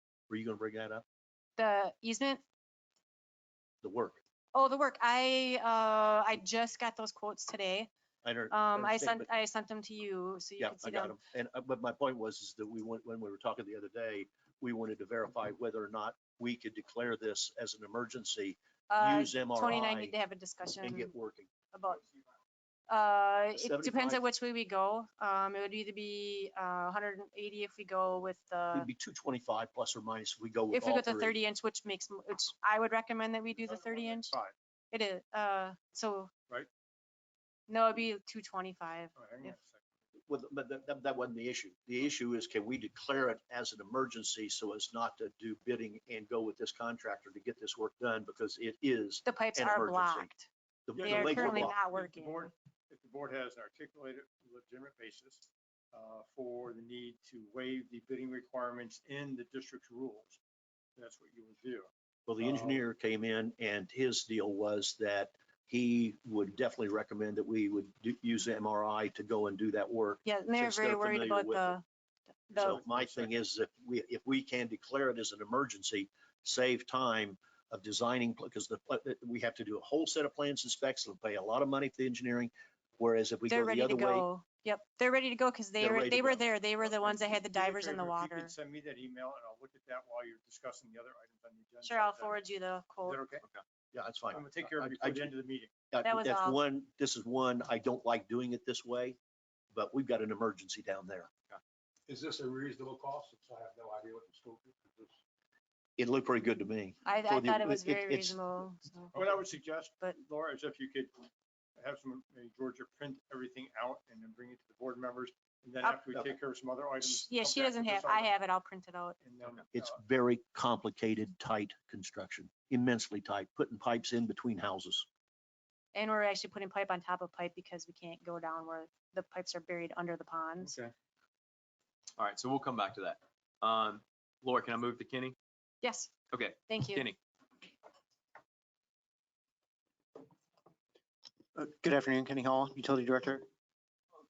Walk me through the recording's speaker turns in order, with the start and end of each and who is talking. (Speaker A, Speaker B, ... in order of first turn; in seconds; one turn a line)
Speaker A: 0.3-1.0
Speaker B: 1.6-2.4
Speaker A: 3.8-4.2
Speaker B: 4.5-7.9
Speaker A: 8.2-9.2
Speaker B: 8.5-11.2
Speaker A: 10.6-20.1
Speaker B: 18.9-21.1
Speaker A: 20.8-21.5
Speaker B: 21.7-22.1
Speaker B: 22.9-28.9
Speaker A: 23.6-24.2
Speaker A: 28.7-31.4
Speaker B: 30.7-34.4
Speaker C: 33.6-34.5
Speaker B: 34.9-36.3
Speaker B: 37.7-39.5
Speaker C: 39.1-39.8
Speaker A: 40.3-50.3
Speaker B: 49.2-52.5
Speaker A: 50.9-51.7
Speaker C: 51.0-60.4
Speaker C: 61.0-61.9
Speaker A: 62.3-71.8
Speaker C: 62.4-62.8
Speaker B: 70.2-71.8
Speaker B: 72.5-72.8
Speaker A: 72.5-84.3
Speaker C: 72.6-73.3
Speaker B: 83.5-88.5
Speaker A: 85.8-86.4
Speaker C: 86.9-92.5
Speaker B: 91.8-93.2
Speaker C: 93.0-93.4
Speaker A: 93.9-95.3
Speaker C: 94.3-95.8
Speaker A: 95.9-99.2
Speaker B: 96.0-96.6
Speaker A: 99.7-101.3
Speaker D: 102.1-105.1
Speaker A: 106.0-108.4
Speaker B: 107.0-110.2
Speaker C: 109.1-118.3
Speaker B: 117.0-119.2
Speaker C: 119.2-120.0
Speaker A: 119.7-125.0
Speaker B: 125.9-130.8
Speaker E: 130.6-130.9
Speaker E: 132.2-135.3
Speaker B: 135.8-137.1
Speaker E: 136.3-137.2
Speaker F: 141.5-143.4